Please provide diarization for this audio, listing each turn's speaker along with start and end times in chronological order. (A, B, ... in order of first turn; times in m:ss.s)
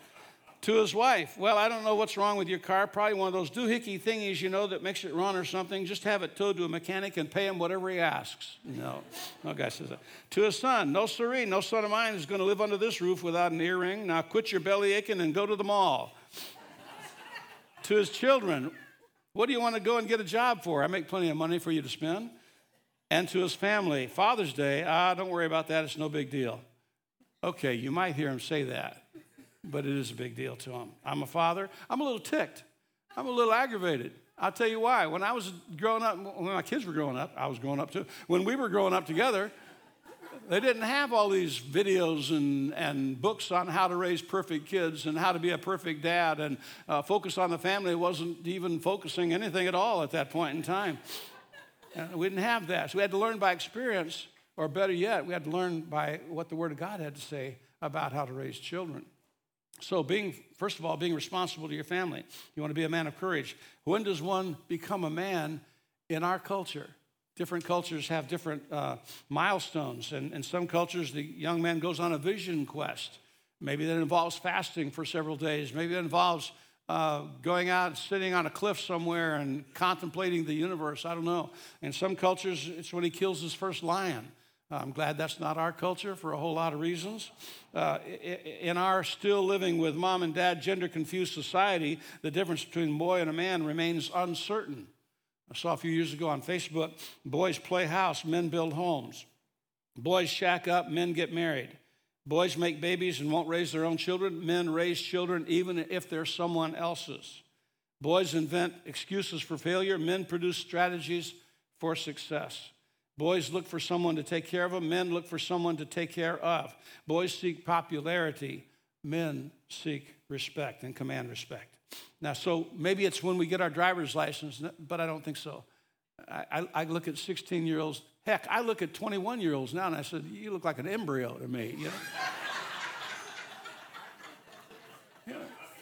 0:00.6-0:16.1 A
0:17.8-0:18.7 A
0:19.3-0:22.3 A
0:23.1-0:26.6 A
0:27.4-0:29.0 A
0:29.6-0:39.5 A
0:40.4-0:51.3 A
0:52.0-0:59.1 A
0:59.8-1:34.9 A
1:35.5-1:39.3 A
1:40.0-1:47.4 A
1:48.0-2:05.6 A
2:06.2-2:12.0 A
2:15.3-2:15.5 A